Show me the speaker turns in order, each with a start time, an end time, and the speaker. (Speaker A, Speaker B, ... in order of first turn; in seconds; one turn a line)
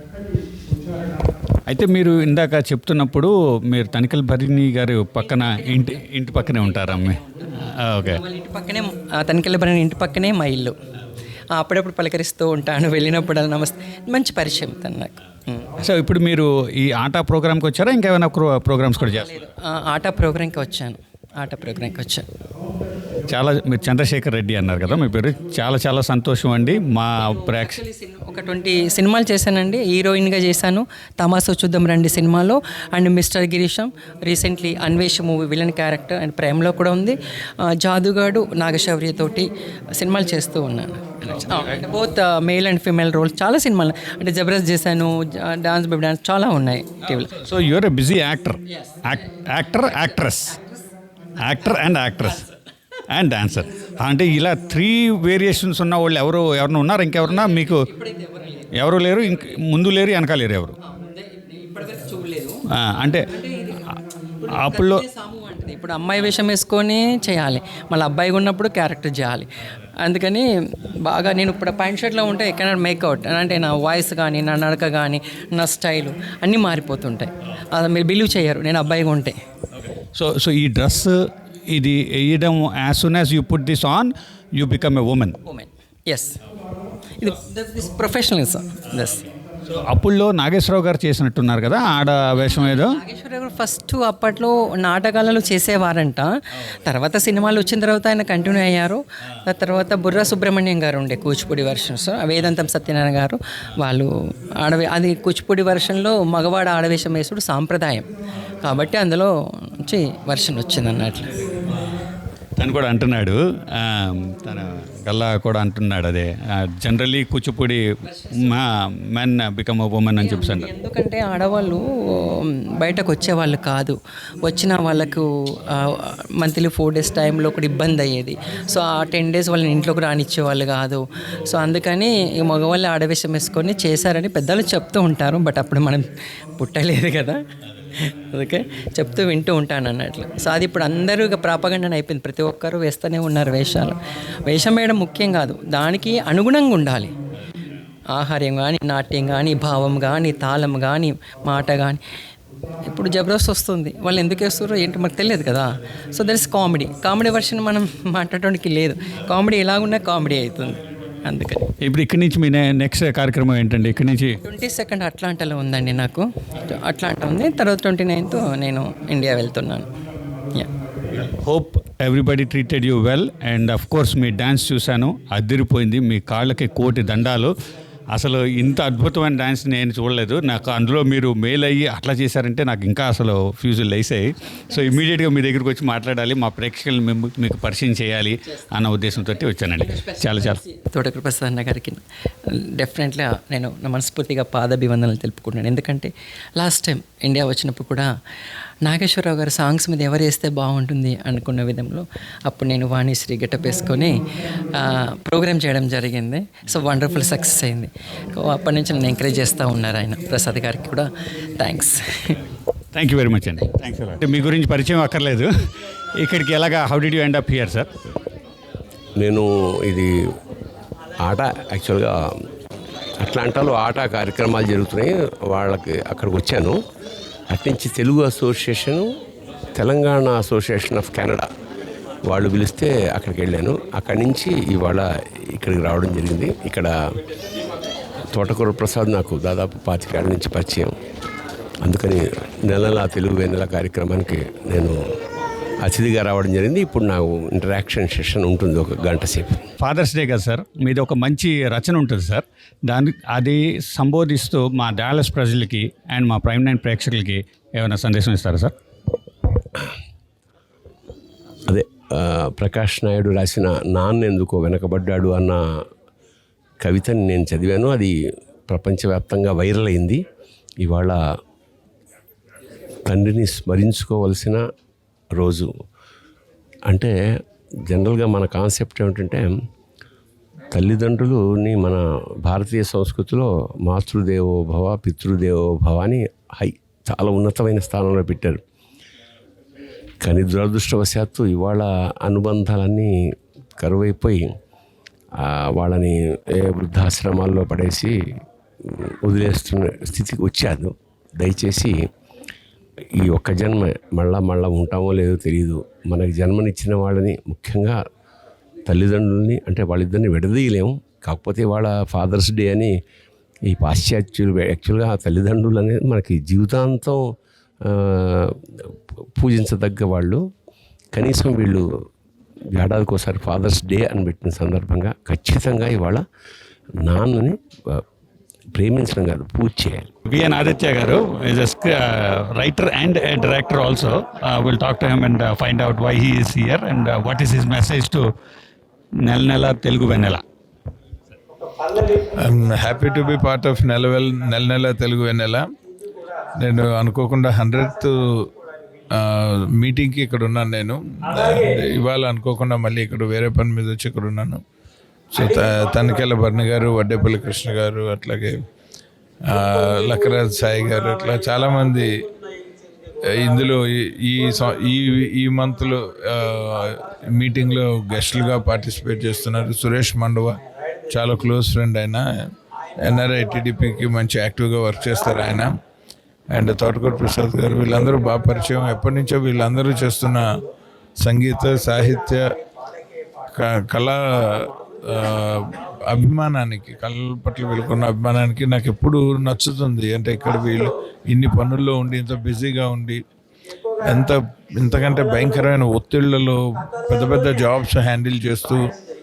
Speaker A: 1.7-8.2
Speaker B: 5.4-6.0
Speaker B: 6.7-7.3
Speaker B: 8.0-10.7
Speaker B: 11.5-15.7
Speaker A: 15.8-19.3
Speaker B: 18.9-22.2
Speaker A: 23.3-27.8
Speaker B: 27.4-47.3
Speaker A: 47.4-50.5
Speaker A: 51.4-52.5
Speaker A: 53.1-57.8
Speaker B: 57.2-58.6
Speaker A: 58.8-60.7
Speaker B: 60.8-62.6
Speaker A: 62.7-63.2
Speaker B: 63.3-63.9
Speaker B: 64.4-69.5
Speaker A: 64.6-65.0
Speaker B: 70.0-79.4
Speaker A: 80.1-81.1
Speaker A: 81.7-85.4
Speaker B: 85.5-86.4
Speaker B: 87.2-89.3
Speaker A: 89.7-92.9
Speaker B: 92.4-108.1
Speaker B: 108.6-111.3
Speaker A: 112.6-117.8
Speaker A: 118.4-120.7
Speaker B: 120.2-136.0
Speaker B: 136.6-137.4
Speaker B: 138.0-147.1
Speaker B: 148.1-152.0
Speaker B: 152.8-161.7
Speaker A: 161.8-164.4
Speaker B: 164.4-169.9
Speaker A: 171.1-177.5
Speaker A: 178.1-190.6
Speaker B: 189.9-198.1
Speaker B: 198.8-204.2
Speaker B: 204.7-212.4
Speaker A: 212.9-215.5
Speaker A: 216.2-217.9
Speaker C: 219.2-220.1
Speaker C: 221.2-222.2
Speaker C: 223.2-226.8
Speaker C: 227.5-229.1
Speaker C: 229.7-231.5
Speaker C: 232.2-236.9
Speaker C: 238.3-240.9
Speaker C: 241.8-245.0
Speaker C: 245.8-249.6
Speaker A: 249.8-258.7
Speaker C: 261.7-265.6
Speaker C: 266.8-268.1
Speaker C: 268.7-270.2
Speaker C: 270.8-271.2
Speaker C: 273.1-274.6
Speaker C: 275.4-275.7
Speaker C: 277.9-279.5
Speaker C: 280.7-288.6
Speaker C: 290.2-293.1
Speaker C: 293.8-294.4
Speaker C: 295.4-298.1
Speaker C: 298.9-301.9
Speaker C: 303.2-308.0
Speaker C: 308.9-312.9
Speaker C: 313.7-317.2
Speaker C: 317.9-318.5
Speaker C: 319.4-320.4
Speaker C: 321.1-321.8
Speaker C: 322.7-326.2
Speaker C: 327.0-328.0
Speaker C: 328.7-330.1
Speaker A: 330.3-338.2
Speaker A: 339.2-340.4
Speaker D: 342.4-345.7
Speaker D: 346.6-348.1
Speaker D: 349.1-354.6
Speaker D: 355.3-358.5
Speaker D: 359.4-362.1
Speaker D: 363.4-370.6
Speaker D: 371.1-372.2
Speaker D: 373.0-375.7
Speaker D: 376.5-380.4
Speaker D: 381.2-382.4
Speaker D: 383.5-393.2
Speaker D: 394.0-398.9